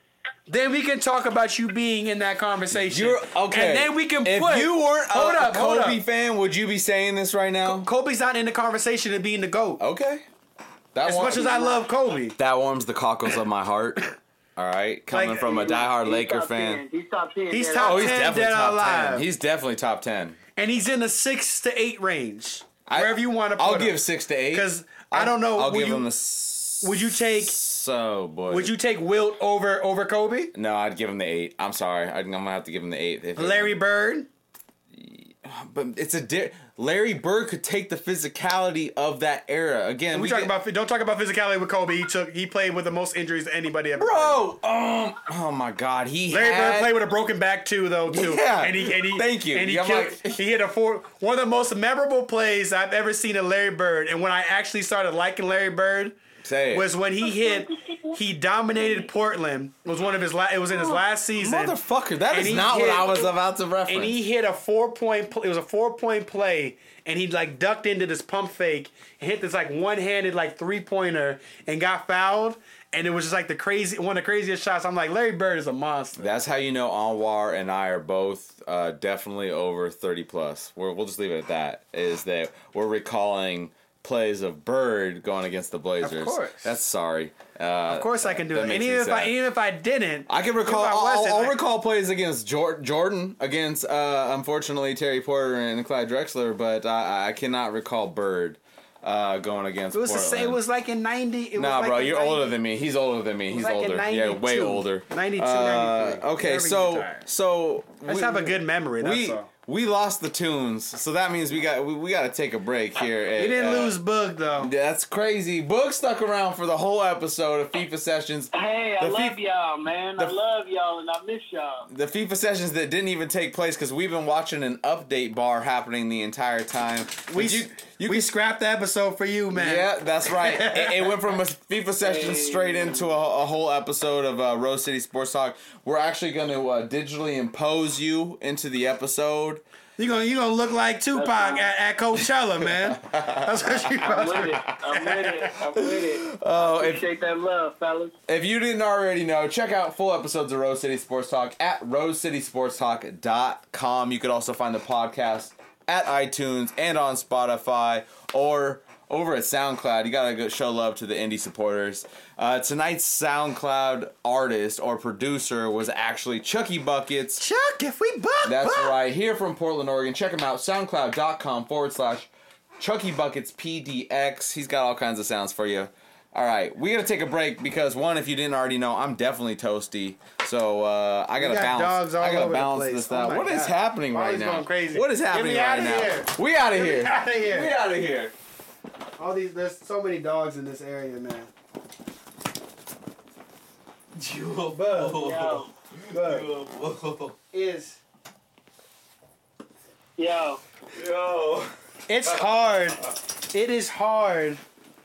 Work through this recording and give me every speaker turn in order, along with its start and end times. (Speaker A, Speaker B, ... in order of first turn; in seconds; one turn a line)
Speaker A: 0.5-6.0
Speaker B: 2.7-7.9
Speaker A: 7.6-9.8
Speaker B: 9.8-10.2
Speaker B: 10.9-11.8
Speaker A: 11.0-12.4
Speaker B: 12.4-16.8
Speaker A: 15.1-15.7
Speaker C: 15.5-18.2
Speaker A: 17.5-19.3
Speaker B: 17.8-20.4
Speaker A: 20.6-26.1
Speaker B: 22.9-28.7
Speaker A: 26.8-27.6
Speaker A: 28.5-30.5
Speaker B: 30.6-33.8
Speaker A: 33.4-34.3
Speaker B: 34.9-40.5
Speaker A: 40.1-44.5
Speaker B: 44.0-47.0
Speaker A: 46.3-56.2
Speaker B: 48.1-50.4
Speaker B: 56.4-56.9
Speaker A: 56.7-61.8
Speaker C: 57.2-58.2
Speaker B: 61.4-64.2
Speaker A: 62.3-63.3
Speaker A: 63.9-76.3
Speaker B: 76.2-89.4
Speaker A: 86.0-86.7
Speaker A: 87.9-91.6
Speaker B: 90.3-100.6
Speaker A: 99.9-102.5
Speaker B: 101.6-114.0
Speaker A: 103.5-107.3
Speaker A: 108.1-109.5
Speaker A: 113.4-114.7
Speaker B: 114.6-119.4
Speaker C: 118.5-121.9
Speaker B: 121.9-128.3
Speaker A: 127.3-131.1
Speaker B: 129.5-139.6
Speaker C: 132.0-133.1
Speaker A: 140.0-145.5
Speaker C: 141.1-141.7
Speaker B: 142.8-145.0
Speaker C: 144.0-148.1
Speaker B: 145.7-147.1
Speaker B: 148.3-167.4
Speaker A: 167.4-168.9
Speaker B: 168.4-172.3
Speaker B: 172.8-188.3
Speaker A: 181.4-187.7
Speaker A: 189.2-191.5
Speaker B: 194.2-197.3
Speaker A: 194.7-195.2
Speaker C: 195.2-195.7
Speaker A: 196.1-196.5
Speaker A: 197.5-198.0
Speaker C: 200.2-200.6
Speaker B: 200.9-202.5
Speaker A: 202.1-204.6